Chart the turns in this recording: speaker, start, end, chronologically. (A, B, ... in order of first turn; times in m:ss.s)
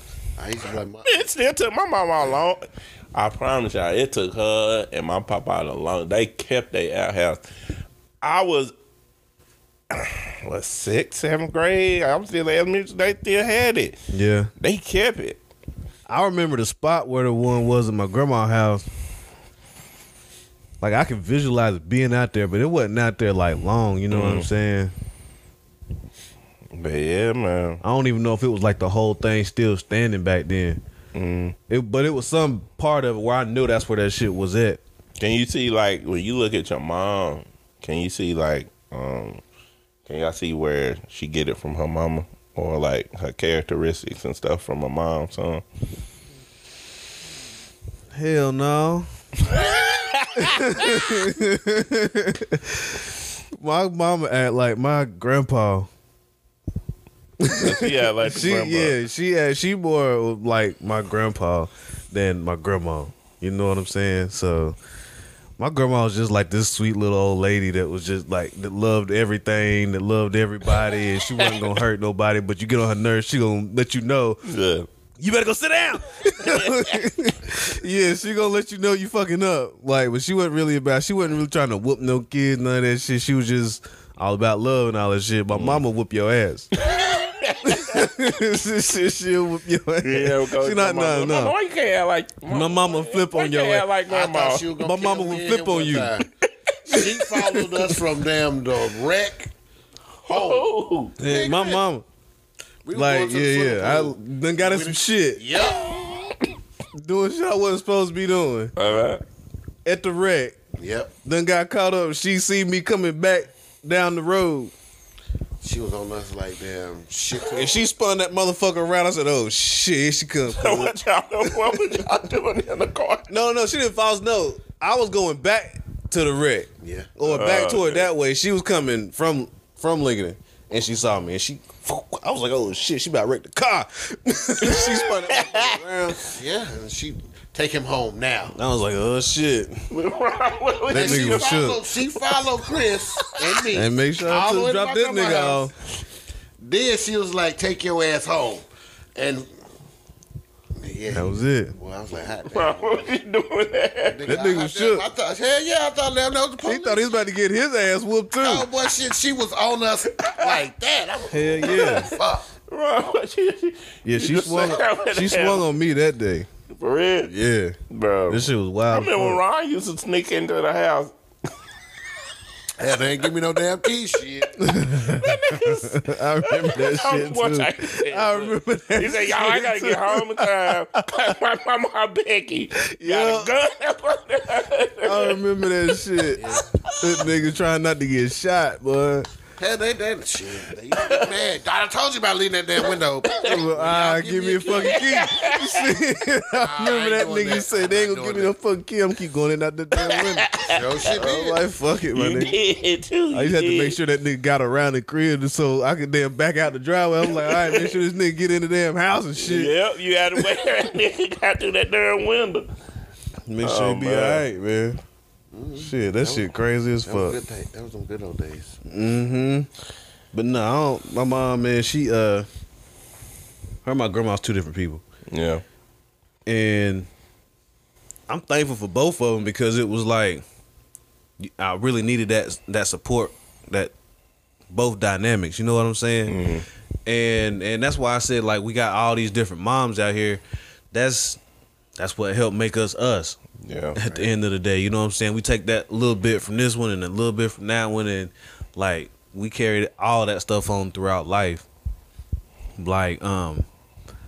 0:00.4-0:01.3 A
0:01.0-0:07.4 B
0:08.2-0:08.7 B
0:09.9-0:14.0 B
0:14.1-0:14.5 C
0:14.6-0:15.4 B
0:16.1-0:18.8 C
0:20.8-0:24.9 C
0:24.1-0:24.5 B
0:26.7-0:27.8 B
0:27.8-0:30.8 C
0:31.1-0:31.6 B
0:31.7-0:34.8 C
0:35.2-0:39.4 B
0:40.1-0:45.6 B
0:48.1-0:49.1 C
0:49.5-0:51.1 B
0:50.4-0:55.9 C
0:57.4-1:04.8 C
0:57.4-0:59.0 B
1:05.6-1:14.4 C
1:14.4-1:14.9 B
1:15.2-1:26.7 C
1:16.2-1:17.1 B
1:25.5-1:25.8 B
1:26.8-1:28.1 B
1:27.7-1:31.5 C
1:30.0-1:34.6 B
1:32.5-1:33.9 C
1:34.1-1:36.3 A
1:34.8-1:36.2 C
1:36.4-1:37.6 B
1:36.8-1:39.5 A
1:40.2-1:41.1 B
1:40.3-1:40.7 A
1:41.2-1:42.0 C
1:41.2-1:41.8 A
1:42.8-1:46.0 A
1:42.9-1:45.4 C
1:45.7-1:46.5 B
1:46.9-1:48.7 C
1:48.8-1:49.2 B
1:49.8-1:50.6 C
1:50.8-1:51.1 A
1:51.2-1:54.7 C
1:55.6-1:57.8 A
1:57.5-2:01.8 C
2:00.5-2:03.3 B
2:03.3-2:16.2 C
2:06.8-2:07.1 A
2:07.2-2:08.1 B
2:14.6-2:15.6 B
2:15.3-2:18.6 A
2:18.6-2:19.8 C
2:19.9-2:21.7 B
2:20.9-2:21.8 C
2:20.9-2:25.7 A
2:23.2-2:23.5 B
2:23.7-2:25.7 C
2:26.6-2:29.5 A
2:30.8-2:33.1 A
2:31.1-2:31.8 C
2:32.5-2:34.3 B
2:34.1-2:37.0 A
2:34.2-2:35.0 C
2:36.6-2:38.7 C
2:38.4-2:42.4 A
2:40.2-2:40.6 B
2:41.3-2:42.1 C
2:41.6-2:45.6 B
2:44.0-2:46.5 C
2:46.7-2:47.3 B
2:47.3-2:47.8 C
2:47.9-2:51.1 B
2:48.3-2:49.4 C
2:52.8-2:54.7 A
2:54.6-3:01.3 C
2:54.9-3:06.0 B
3:02.9-3:03.5 C
3:05.0-3:09.3 C
3:06.3-3:06.6 A
3:06.5-3:07.3 B
3:09.6-3:15.0 A
3:10.9-3:11.3 B
3:13.2-3:13.6 B
3:13.4-3:20.5 C
3:14.6-3:15.9 B
3:16.5-3:18.5 A
3:20.0-3:21.3 B
3:20.5-3:21.6 A
3:21.1-3:22.5 C
3:22.1-3:24.0 B
3:23.3-3:29.7 C
3:27.3-3:27.9 B
3:29.4-3:32.7 B
3:33.5-3:35.0 C
3:33.6-3:34.4 B
3:35.5-3:36.5 A
3:35.8-3:37.4 C
3:37.1-3:38.8 A
3:38.8-3:39.7 C
3:40.3-3:42.5 C
3:43.8-3:45.0 C
3:45.3-3:45.6 B
3:46.4-3:47.1 C
3:48.3-3:50.4 C
3:51.4-3:53.9 C
3:54.7-3:56.4 C
3:56.3-3:56.6 B
3:57.0-4:00.4 C
4:00.9-4:01.4 C
4:02.0-4:03.4 C
4:03.6-4:04.0 B
4:04.0-4:11.6 C
4:04.0-4:04.3 A
4:12.8-4:13.6 C